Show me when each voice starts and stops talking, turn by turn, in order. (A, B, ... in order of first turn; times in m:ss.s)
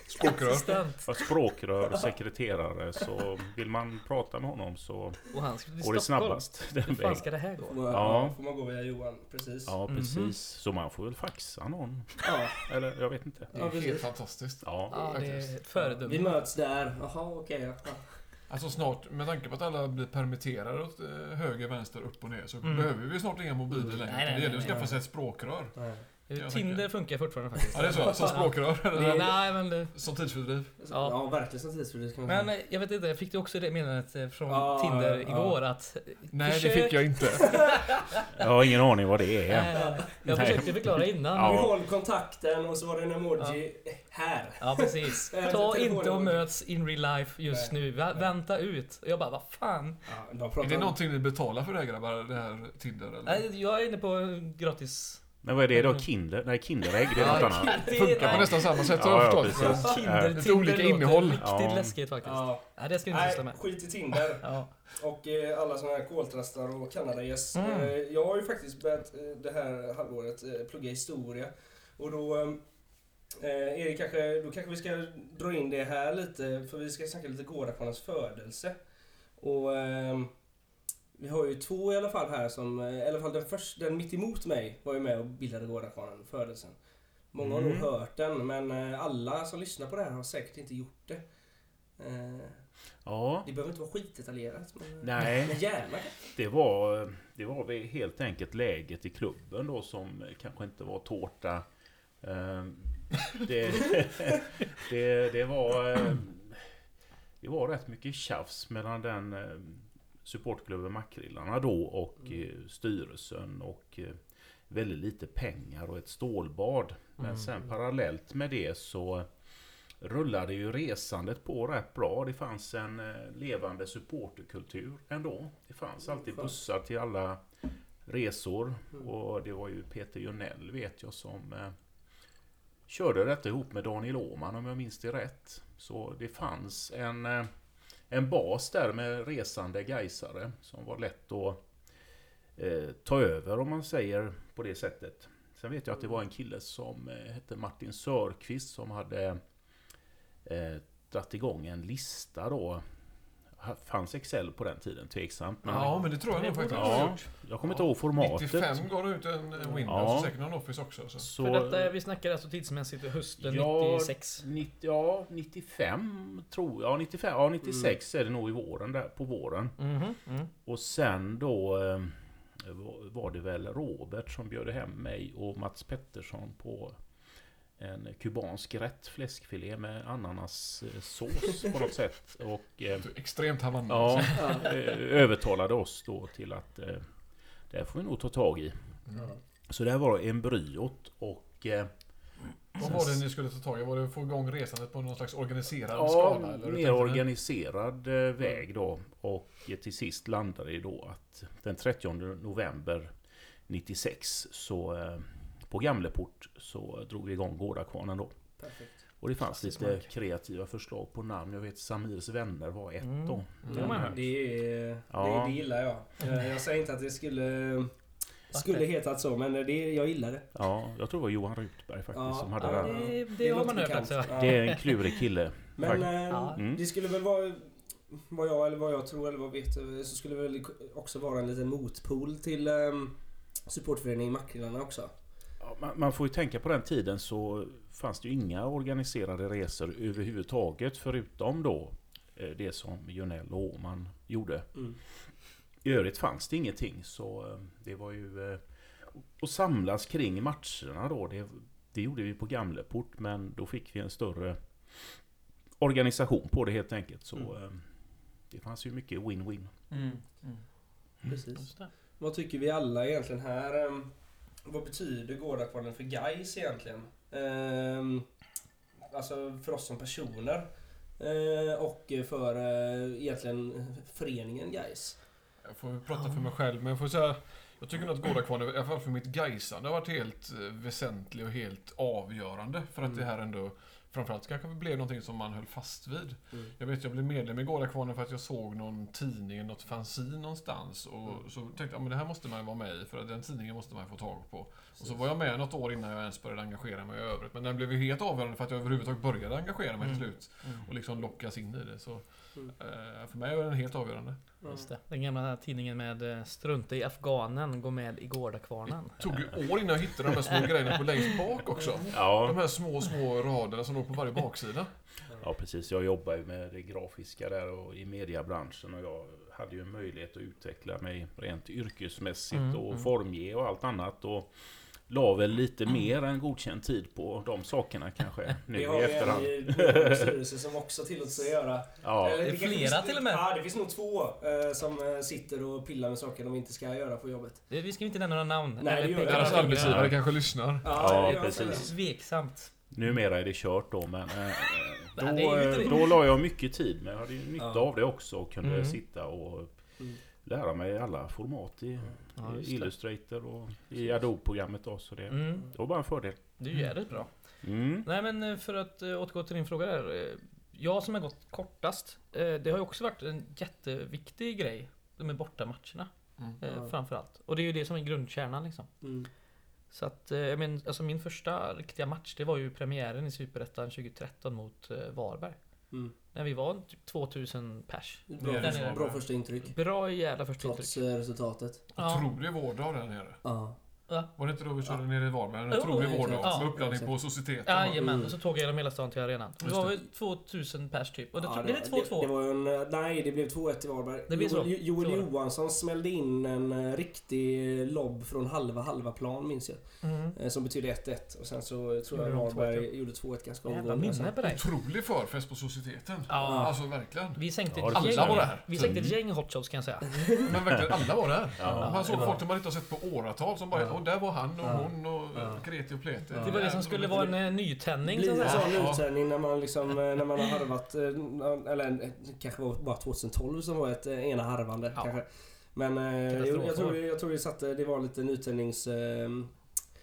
0:00.1-0:00.8 A
0:00.1-0:01.1 B
0:01.0-0:05.2 C
0:05.3-0:07.8 B
0:05.8-0:07.2 C
0:07.6-0:09.7 D
0:07.9-0:08.4 C
0:09.6-0:13.5 C
0:09.9-0:10.3 B
0:12.2-0:12.7 D
0:13.5-0:14.0 D
0:13.5-0:15.8 A
0:14.6-0:15.2 C
0:14.9-0:16.4 B
0:16.0-0:18.2 D
0:18.5-0:25.7 A
0:22.6-0:22.9 B
0:23.7-0:24.0 D
0:24.0-0:24.8 B
0:24.6-0:25.0 D
0:25.8-0:26.0 D
0:26.3-0:29.9 B
0:26.3-0:26.8 A
0:27.7-0:30.7 A
0:27.7-0:28.4 D
0:29.0-0:29.2 D
0:30.8-0:32.5 D
0:30.9-0:31.2 B
0:32.3-0:38.4 B
0:34.5-0:35.6 D
0:36.3-0:37.8 A
0:38.3-0:41.7 C
0:39.4-0:41.6 B
0:39.7-0:40.2 D
0:41.4-0:46.4 D
0:44.6-0:50.0 B
0:47.5-0:48.2 D
0:50.0-0:51.0 D
0:50.6-0:53.4 A
0:53.2-0:56.0 B
0:55.4-0:58.0 C
0:57.1-1:03.8 B
0:57.2-1:01.4 A
0:58.9-1:00.4 C
1:01.4-1:02.0 C
1:02.2-1:12.6 D
1:04.4-1:04.7 B
1:07.5-1:07.9 B
1:13.4-1:18.8 D
1:19.4-1:20.3 D
1:21.2-1:26.8 D
1:27.3-1:31.2 D
1:27.4-1:27.9 C
1:32.0-1:32.6 D
1:33.0-1:33.5 C
1:33.4-1:36.2 D
1:35.0-1:35.6 C
1:36.2-1:41.6 C
1:42.2-1:46.7 C
1:47.4-1:59.3 C
1:57.2-1:57.5 B
2:00.0-2:07.4 C
2:06.3-2:06.5 D
2:08.0-2:11.7 C
2:12.9-2:17.5 C
2:18.1-2:21.6 C
2:22.6-2:29.4 C
2:30.4-2:32.8 C
2:33.6-2:36.1 C
2:35.6-2:41.2 A
2:36.3-2:37.3 B
2:36.7-2:38.8 C
2:39.8-2:40.3 C
2:41.2-2:41.9 C
2:41.4-2:44.4 B
2:43.4-2:49.8 C
2:47.6-2:47.9 D
2:49.8-2:50.5 B
2:50.6-2:57.0 C
2:57.8-3:03.1 C
3:03.0-3:04.4 A
3:03.9-3:07.1 C
3:04.3-3:04.7 D
3:07.7-3:09.0 C
3:09.7-3:11.9 C
3:12.8-3:17.2 A
3:12.8-3:13.2 C
3:15.9-3:23.1 C
3:23.7-3:28.4 C
3:28.6-3:28.9 D
3:29.2-3:34.3 C
3:29.4-3:30.0 B
3:33.0-3:34.1 B
3:33.6-3:33.9 A
3:33.7-3:37.9 D
3:35.1-3:35.6 C
3:38.5-3:38.9 B
3:38.5-3:40.5 D
3:40.5-3:43.0 C
3:42.1-3:44.6 D
3:42.6-3:45.2 B
3:44.3-3:46.8 C
3:45.8-3:55.1 D
3:45.9-3:46.6 B
3:55.6-4:04.7 C
4:05.8-4:15.2 C
4:15.8-4:17.9 C
4:18.5-4:19.8 C
4:19.9-4:20.6 B
4:21.2-4:24.1 D
4:21.6-4:21.9 B
4:24.6-4:28.3 D
4:29.1-4:30.7 D
4:31.2-4:35.2 D
4:35.6-5:04.4 A
4:36.1-4:36.4 B
4:55.0-4:55.3 D
5:00.0-5:00.8 B
5:04.6-5:04.9 D
5:04.6-5:09.4 B
5:09.2-5:14.9 A
5:12.1-5:12.6 C
5:15.4-5:24.5 C
5:22.5-5:23.0 B
5:25.1-5:30.3 C
5:28.7-5:37.6 D
5:32.0-5:32.4 C
5:32.4-5:33.4 B
5:37.7-5:40.1 B
5:38.8-5:40.1 D
5:39.2-5:40.9 A
5:39.8-5:40.2 C
5:40.8-5:41.9 D
5:40.9-5:41.9 C
5:41.0-5:42.7 B
5:42.9-5:49.7 C
5:45.2-5:46.1 B
5:47.6-5:47.8 D
5:48.6-5:49.0 B
5:50.4-5:56.4 C
5:52.4-5:52.9 B
5:55.3-5:55.7 B
5:56.6-5:57.3 B
5:57.6-5:58.1 C
5:58.0-6:08.9 B
6:06.6-6:06.9 D
6:09.0-6:09.3 D
6:09.9-6:15.6 B
6:16.3-6:21.0 B
6:18.3-6:19.8 D
6:18.4-6:19.0 A
6:20.6-6:21.8 D
6:22.0-6:22.2 B
6:22.0-6:23.4 A
6:23.4-6:23.8 D
6:24.4-6:28.2 A
6:25.7-6:26.7 B
6:26.0-6:27.1 D
6:27.6-6:32.3 B
6:28.0-6:28.4 D
6:29.6-6:30.0 A
6:31.4-6:44.4 D
6:34.3-6:35.3 B
6:40.0-6:40.3 B
6:42.1-6:42.9 B
6:43.6-6:44.6 B
6:44.4-6:49.0 A
6:46.3-6:46.8 B
6:46.4-6:46.7 D
6:47.3-6:50.2 B
6:47.7-6:49.2 C
6:50.1-6:50.5 D
6:50.4-6:57.3 A
6:50.6-6:50.9 C
6:51.6-6:52.0 C
6:51.8-6:52.4 B
6:52.1-6:52.4 D
6:54.6-6:55.6 D
6:56.3-6:57.3 D
6:56.4-6:59.0 B
6:58.0-7:09.6 D
6:58.4-6:59.0 A
7:06.3-7:07.0 B